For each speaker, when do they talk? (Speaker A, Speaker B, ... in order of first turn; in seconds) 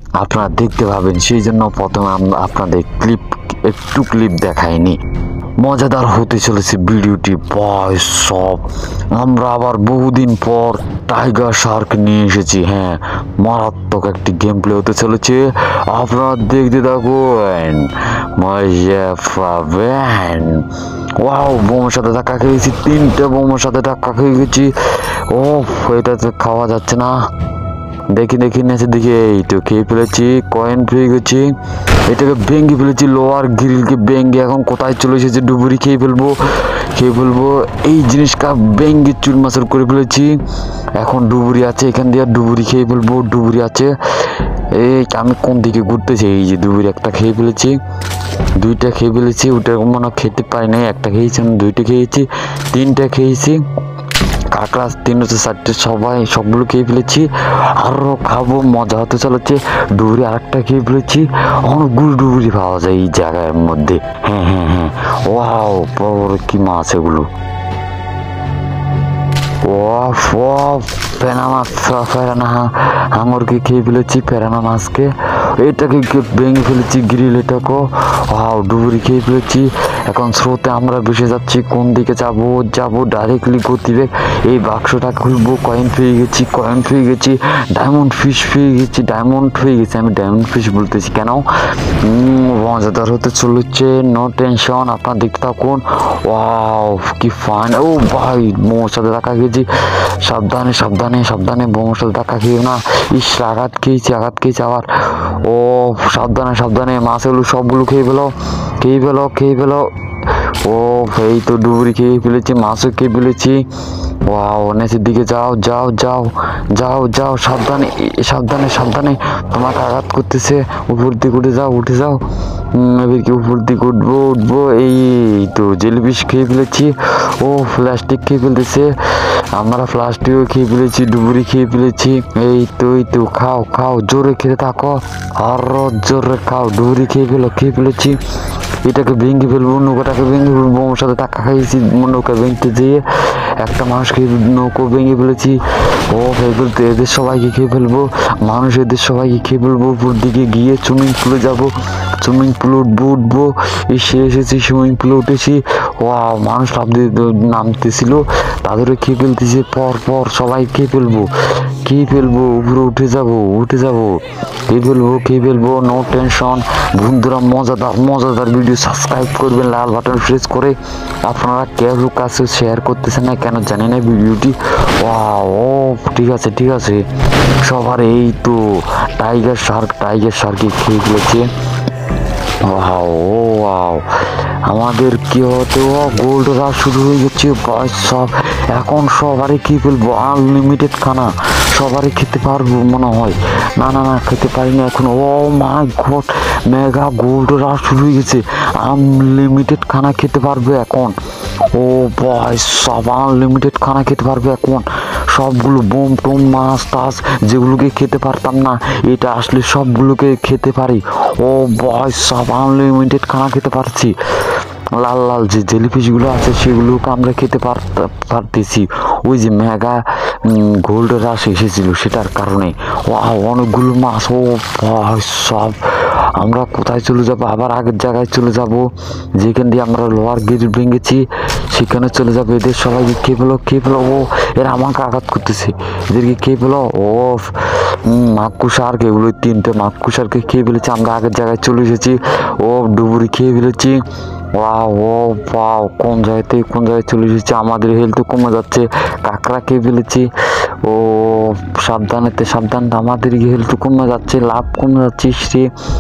Speaker A: 0.2-5.0, 5.6-20.6, 21.2-27.3, 28.1-31.5, 32.1-36.4, 36.9-40.3, 41.0-47.8, 48.6-53.6, 54.5-67.3, 69.7-91.5, 92.0-99.7, 100.2-113.6, 114.3-122.2, 122.7-128.9, 129.6-138.2, 138.8-143.0, 143.6-145.6, 146.1-161.3, 161.8-177.1, 177.6-181.5, 182.7-184.1, 184.7-201.2, 201.7-225.8, 226.3-228.9, 229.4-244.0, 244.6-250.3, 250.8-255.7